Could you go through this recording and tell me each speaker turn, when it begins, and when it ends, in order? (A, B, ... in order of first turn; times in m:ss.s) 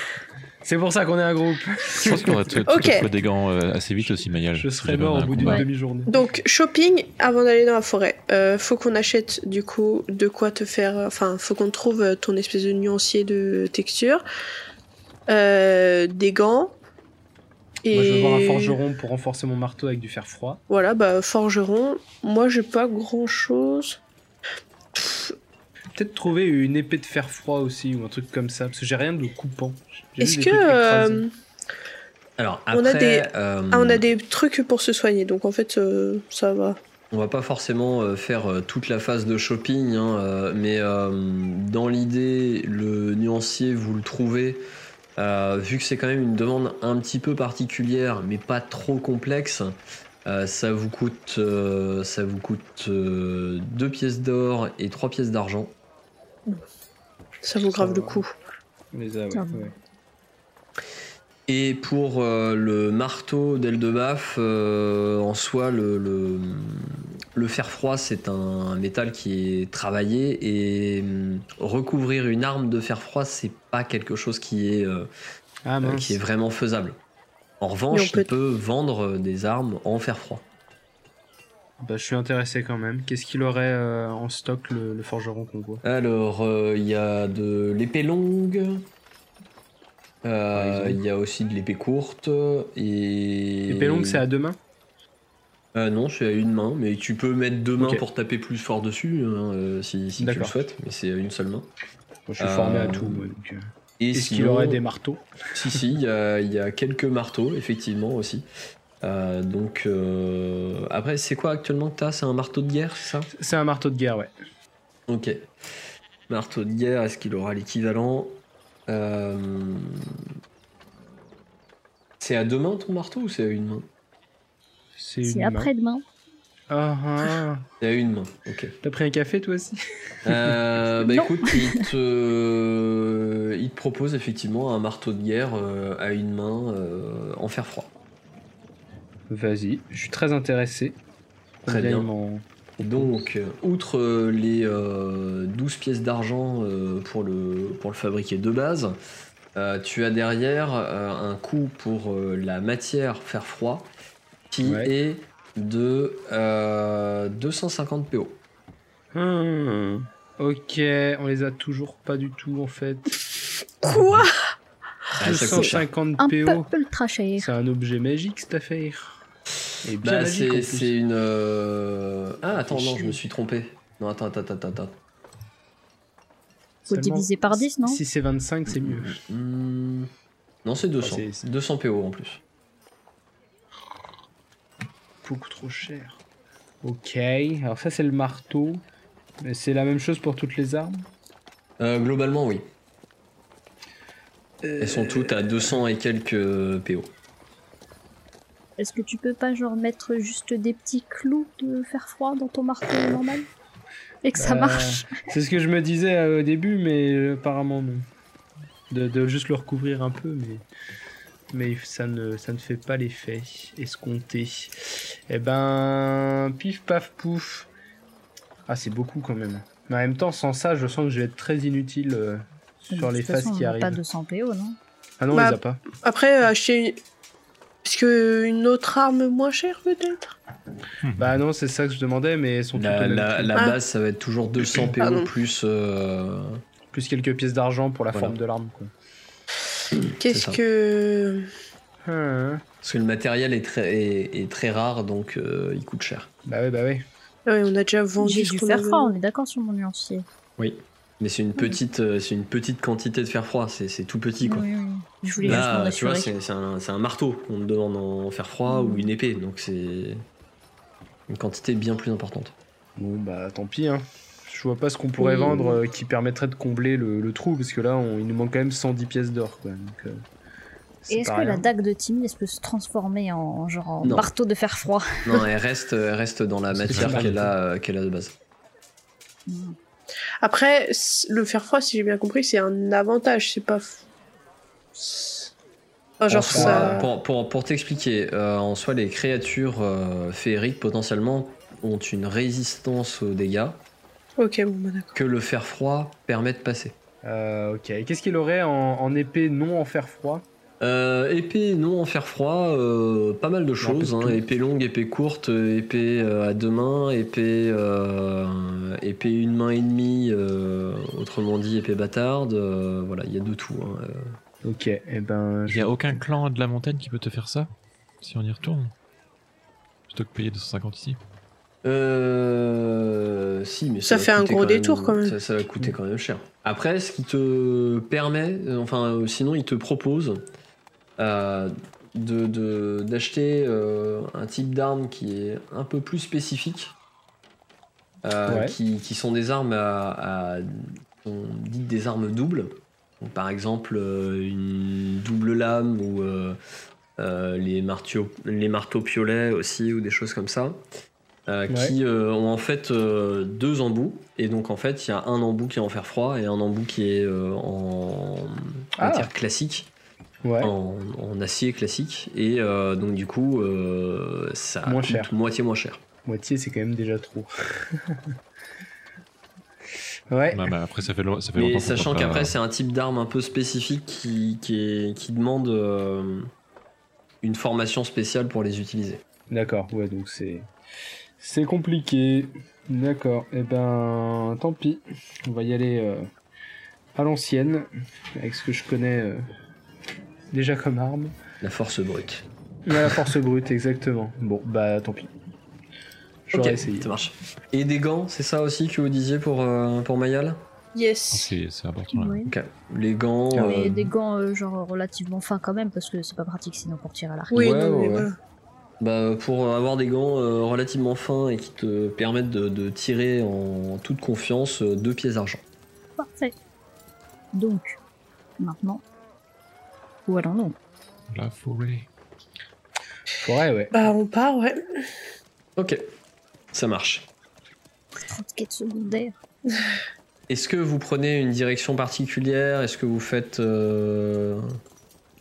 0:00.6-0:02.6 A
0:02.0-0:05.6 B
0:02.6-0:03.1 C
0:04.5-0:06.1 A
0:06.1-0:14.2 C
0:15.3-0:16.8 C
0:17.8-0:18.8 C
0:17.9-0:20.6 A
0:20.7-0:24.0 C
0:25.0-0:25.3 C
0:25.9-0:31.2 A
0:30.2-0:31.3 C
0:32.4-0:34.0 D
0:32.7-0:36.8 C
0:37.1-0:44.6 D
0:45.2-0:49.7 D
0:50.2-0:55.7 D
0:57.4-0:58.3 C
0:57.6-0:58.2 A
0:58.9-0:59.7 A
0:59.3-0:59.7 E
1:01.5-1:15.1 D
1:15.6-1:16.2 A
1:15.8-1:17.0 D
1:17.6-1:20.4 D
1:17.9-1:18.3 C
1:21.8-1:25.8 A
1:25.8-1:28.8 D
1:30.2-1:34.2 D
1:30.5-1:31.0 A
1:33.7-1:34.6 A
1:35.7-1:41.7 D
1:37.8-1:38.0 A
1:40.2-1:40.6 A
1:42.3-1:45.8 A
1:42.4-1:43.3 D
1:44.0-1:44.8 D
1:45.5-1:48.4 D
1:49.0-1:53.3 D
1:53.3-1:54.3 A
1:55.1-1:55.5 D
1:56.3-2:00.1 D
2:02.2-2:03.9 D
2:05.0-2:05.7 A
2:05.2-2:06.0 E
2:06.7-2:07.6 A
2:07.8-2:08.7 D
2:08.8-2:10.6 A
2:10.2-2:17.9 D
2:11.2-2:11.8 E
2:19.3-2:21.0 A
2:21.6-2:23.2 A
2:21.7-2:22.1 D
2:22.8-2:29.0 D
2:29.6-2:33.9 D
2:34.5-2:38.4 D
2:34.6-2:34.9 A
2:39.1-2:43.2 A
2:43.8-2:44.3 C
2:45.1-2:45.9 D
2:45.2-2:46.7 A
2:45.3-2:47.5 E
2:47.4-2:49.2 A
2:49.8-2:50.9 A
2:50.0-2:54.9 D
2:52.5-2:53.2 A
2:56.9-2:58.0 E
2:56.9-2:59.2 A
2:58.7-3:00.1 D
3:00.6-3:02.4 D
3:01.0-3:01.4 A
3:05.2-3:06.2 A
3:06.8-3:08.8 A
3:09.4-3:11.0 A
3:11.8-3:12.6 D
3:14.6-3:15.8 A
3:14.8-3:17.1 D
3:18.8-3:23.5 E
3:24.2-3:25.2 E
3:24.4-3:28.0 A
3:28.9-3:30.6 A
3:31.5-3:37.7 A
3:38.7-3:44.0 A
3:42.9-3:44.8 E
3:45.2-3:45.8 A
3:45.3-3:47.0 C
3:47.8-3:50.4 C
3:51.0-3:51.3 B
3:51.2-3:53.7 A
3:52.7-3:56.6 D
3:54.7-3:55.3 C
3:56.9-3:58.9 A
3:59.9-4:00.6 D
4:00.2-4:01.5 C
4:02.0-4:02.6 A
4:02.8-4:06.3 D
4:06.4-4:07.0 A
4:07.5-4:09.2 C
4:08.2-4:10.2 E
4:10.6-4:14.7 D
4:14.4-4:16.3 E
4:15.4-4:20.2 D
4:18.7-4:19.1 E
4:21.3-4:22.5 D
4:23.0-4:30.2 A
4:25.2-4:25.8 E
4:31.0-4:31.7 A
4:31.1-4:35.2 E
4:34.0-4:34.3 D
4:35.2-4:38.3 D
4:36.8-4:37.5 A
4:36.8-4:37.4 B
4:39.5-4:39.7 E
4:40.4-4:44.0 C
4:45.0-4:45.5 C
4:46.2-4:47.1 C
4:46.3-4:53.8 D
4:46.5-4:47.0 A
4:54.4-4:55.2 C
4:55.1-4:56.9 D
4:57.2-5:00.4 A
5:00.8-5:14.4 D
5:03.8-5:04.4 A
5:14.6-5:16.2 A
5:15.7-5:17.7 B
5:18.2-5:18.9 B
5:20.1-5:21.2 B
5:21.8-5:30.4 D
5:24.1-5:25.4 C
5:31.2-5:36.9 D
5:38.2-5:46.6 D
5:38.5-5:38.7 A
5:47.2-5:50.8 D
5:51.5-5:59.9 D
5:51.7-5:51.9 A
5:59.0-5:59.3 A
6:00.4-6:00.7 A
6:00.6-6:06.0 D
6:04.8-6:05.3 A
6:06.2-6:08.3 A
6:10.3-6:10.8 A
6:10.5-6:12.5 B
6:11.5-6:16.5 D
6:17.4-6:19.2 D
6:19.5-6:20.7 A
6:21.4-6:26.3 A
6:27.1-6:29.4 A
6:30.5-6:31.3 A
6:31.6-6:32.4 D
6:32.8-6:35.3 A
6:36.5-6:37.1 A
6:36.5-6:40.6 D
6:40.9-6:41.5 C
6:41.3-6:42.5 B
6:42.1-6:42.5 E
6:42.5-6:44.0 D
6:43.5-6:44.1 A
6:43.6-6:47.8 E
6:47.5-6:48.3 D
6:47.5-6:48.3 C
6:49.0-6:55.6 D
6:56.2-6:56.5 E
6:57.5-6:58.0 E
6:58.6-6:59.0 E
7:00.2-7:00.8 E
7:01.3-7:02.1 B
7:03.4-7:03.9 A
7:03.9-7:04.8 C
7:05.8-7:06.0 D
7:06.7-7:07.3 D
7:08.2-7:09.4 E
7:10.5-7:14.6 D